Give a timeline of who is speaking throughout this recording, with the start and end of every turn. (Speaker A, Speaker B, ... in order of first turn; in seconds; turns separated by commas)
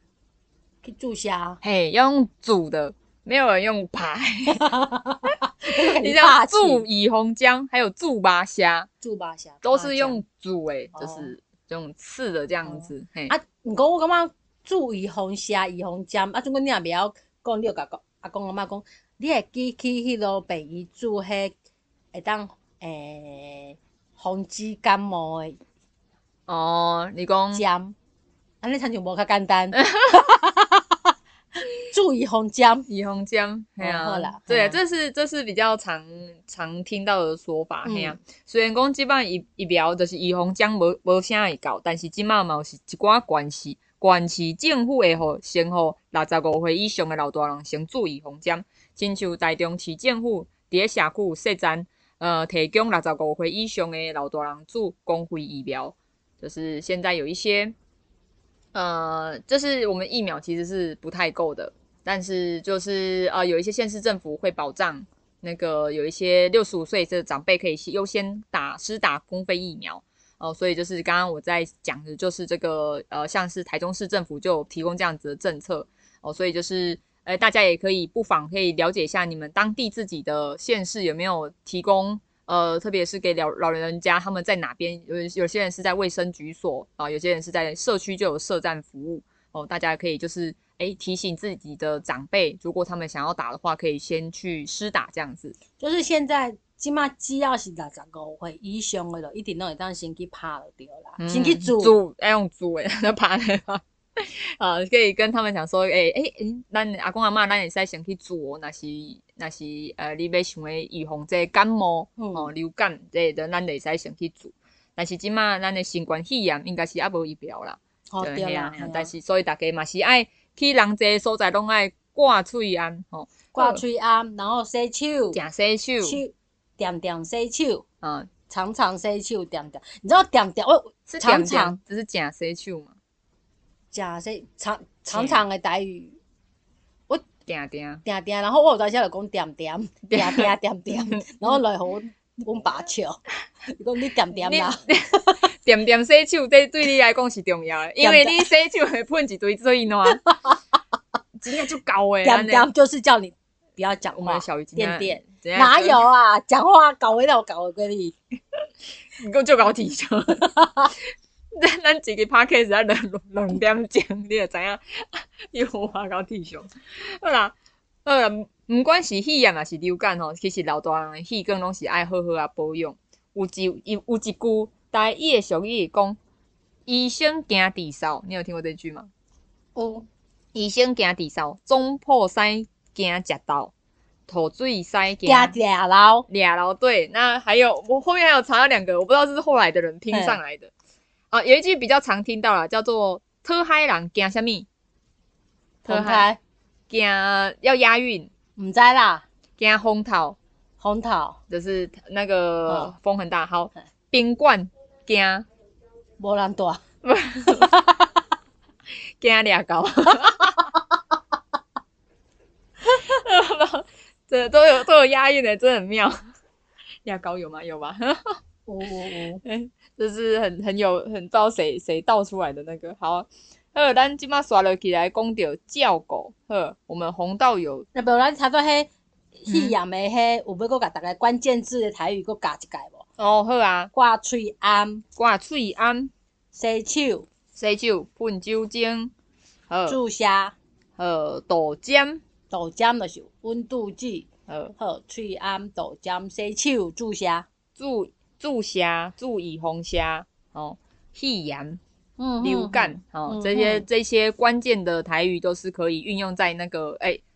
Speaker A: 0.8-1.6, Speaker B: 1.6-4.7, Speaker A: 4.5-6.8, Speaker B: 5.7-8.9, Speaker A: 9.0-10.2, Speaker B: 9.6-13.3, Speaker A: 11.0-11.3, Speaker A: 12.7-21.6, Speaker A: 22.1-25.6, Speaker B: 26.5-27.6, Speaker A: 27.5-27.9, Speaker A: 28.6-31.0, Speaker A: 31.8-32.9, Speaker B: 32.9-57.8, Speaker A: 33.8-34.8, Speaker A: 37.8-38.2, Speaker B: 58.7-95.6, Speaker A: 95.8-102.0, Speaker B: 101.2-123.8, Speaker A: 112.2-112.5, Speaker A: 118.1-119.1, Speaker A: 123.5-125.4, Speaker B: 125.3-126.2, Speaker A: 126.0-127.8, Speaker B: 128.0-128.3, Speaker A: 128.5-131.8, Speaker B: 131.1-132.9, Speaker A: 133.9-136.2, Speaker B: 135.1-135.4, Speaker B: 137.5-138.0, Speaker A: 138.0-145.4, Speaker B: 140.1-141.2, Speaker B: 144.3-150.2, Speaker A: 148.0-148.5, Speaker A: 150.3-150.6, Speaker B: 151.4-152.7, Speaker A: 152.2-158.2, Speaker B: 154.2-156.0, Speaker B: 159.2-160.5, Speaker A: 160.4-160.9, Speaker B: 161.6-176.2, Speaker B: 176.9-179.1, Speaker A: 179.8-180.1, Speaker B: 180.5-183.7, Speaker B: 184.3-185.6, Speaker A: 185.3-186.3, Speaker B: 186.3-190.7, Speaker A: 190.1-190.4, Speaker B: 191.3-194.7, Speaker A: 195.8-196.4, Speaker B: 195.9-196.3, Speaker B: 196.9-198.3, Speaker A: 198.6-199.2, Speaker B: 199.6-200.4, Speaker A: 200.8-201.4, Speaker B: 201.5-205.5, Speaker A: 206.2-206.8, Speaker B: 207.0-207.8, Speaker A: 207.5-208.1, Speaker B: 209.2-210.7, Speaker B: 212.8-216.2, Speaker B: 217.1-218.4, Speaker A: 218.7-219.4, Speaker B: 219.4-227.9, Speaker A: 227.9-233.1, Speaker B: 229.5-229.8, Speaker B: 233.2-233.9, Speaker A: 233.9-235.0, Speaker B: 235.2-236.1, Speaker A: 236.5-237.3, Speaker B: 237.6-239.1, Speaker B: 239.7-240.0, Speaker A: 239.9-240.6, Speaker B: 241.0-242.2, Speaker A: 242.5-247.5, Speaker B: 244.5-244.7, Speaker B: 247.8-251.8, Speaker A: 252.2-253.9, Speaker B: 252.4-257.2